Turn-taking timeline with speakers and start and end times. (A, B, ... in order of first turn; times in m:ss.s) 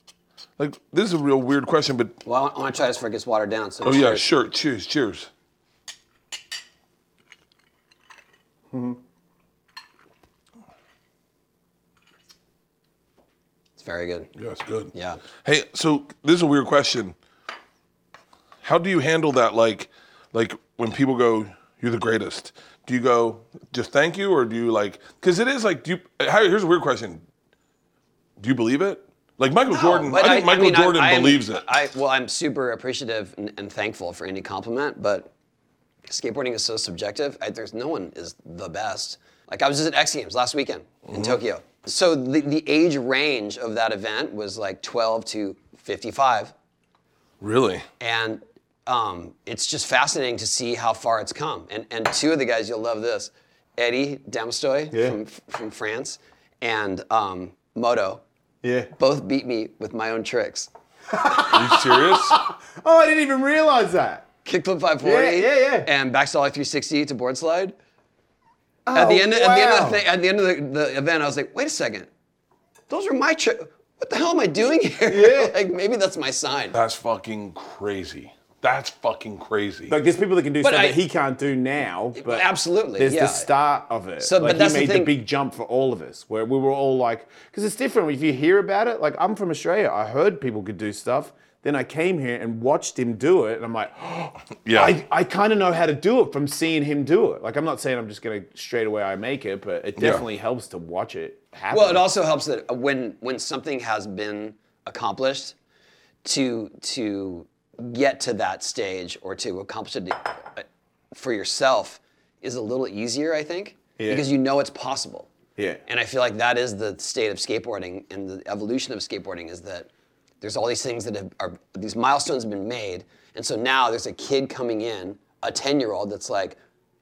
0:00.6-0:02.2 A
0:02.2-0:04.3 B
0:03.8-0:05.3 A
0:08.7-0:09.0 C
0:13.8-0:14.3 B
0:14.4-0:17.2 A
0:14.9-0:15.2 B
0:18.6-0:27.2 A
0:28.4-0:31.6 A
0:29.7-0:35.3 B
0:36.1-0:46.5 B
0:41.1-0:41.4 A
0:47.4-0:47.8 A
0:48.0-0:58.2 B
0:54.9-0:55.2 C
0:58.6-0:58.9 C
0:59.0-1:00.7 B
1:01.1-1:04.3 C
1:01.5-1:02.4 A
1:04.4-1:07.8 B
1:05.0-1:05.9 C
1:08.8-1:10.1 C
1:08.9-1:12.1 B
1:12.9-1:16.8 B
1:15.1-1:15.6 C
1:16.7-1:20.0 A
1:19.9-1:22.5 C
1:20.6-1:21.0 B
1:22.2-1:23.5 B
1:23.0-1:42.1 C
1:24.2-1:25.2 B
1:34.6-1:35.0 A
1:40.0-1:40.2 A
1:41.7-1:45.6 B
1:46.2-1:55.3 B
1:54.0-1:54.3 C
1:55.9-1:59.9 B
2:00.4-2:06.6 B